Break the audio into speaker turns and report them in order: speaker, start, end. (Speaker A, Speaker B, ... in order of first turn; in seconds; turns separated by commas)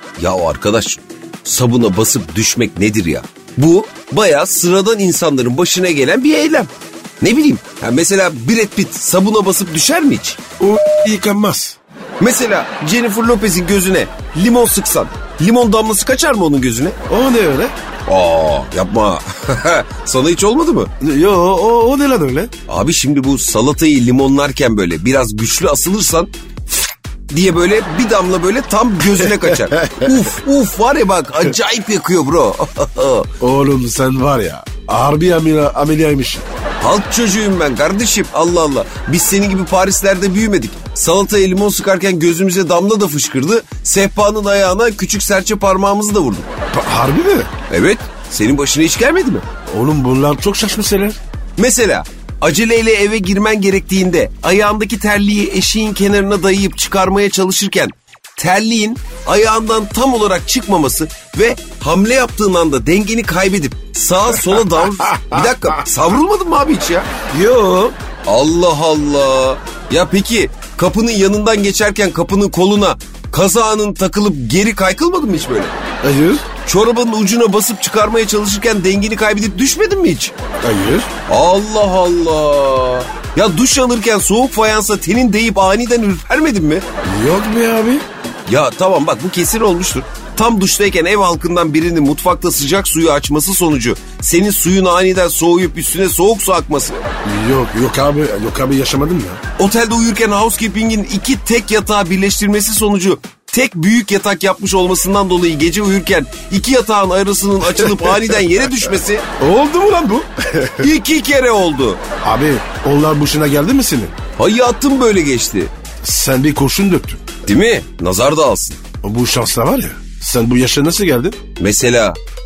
Speaker A: 0.2-6.7, Speaker A: 7.2-10.4, Speaker B: 10.6-11.8, Speaker A: 12.2-17.0, Speaker B: 17.1-17.7, Speaker A: 18.1-20.9, Speaker B: 21.0-22.5, Speaker A: 22.7-33.3, Speaker B: 29.2-30.1, Speaker B: 33.4-36.5, Speaker A: 36.8-46.5, Speaker B: 46.7-47.5, Speaker A: 47.7-49.4, Speaker B: 49.7-51.2, Speaker A: 51.6-67.1, Speaker B: 67.3-68.0, Speaker A: 68.3-75.7, Speaker B: 76.0-76.5, Speaker A: 76.6-80.3, Speaker B: 80.6-81.1, Speaker A: 81.3-86.8, Speaker B: 87.0-88.0, Speaker A: 88.5-97.0, Speaker B: 97.2-99.4, Speaker A: 99.6-109.2, Speaker B: 107.6-108.4, Speaker B: 109.4-110.9, Speaker A: 110.8-112.0, Speaker B: 112.2-114.1, Speaker A: 114.3-115.7, Speaker B: 116.0-117.2, Speaker A: 117.5-118.8, Speaker B: 119.0-121.4, Speaker A: 121.6-122.2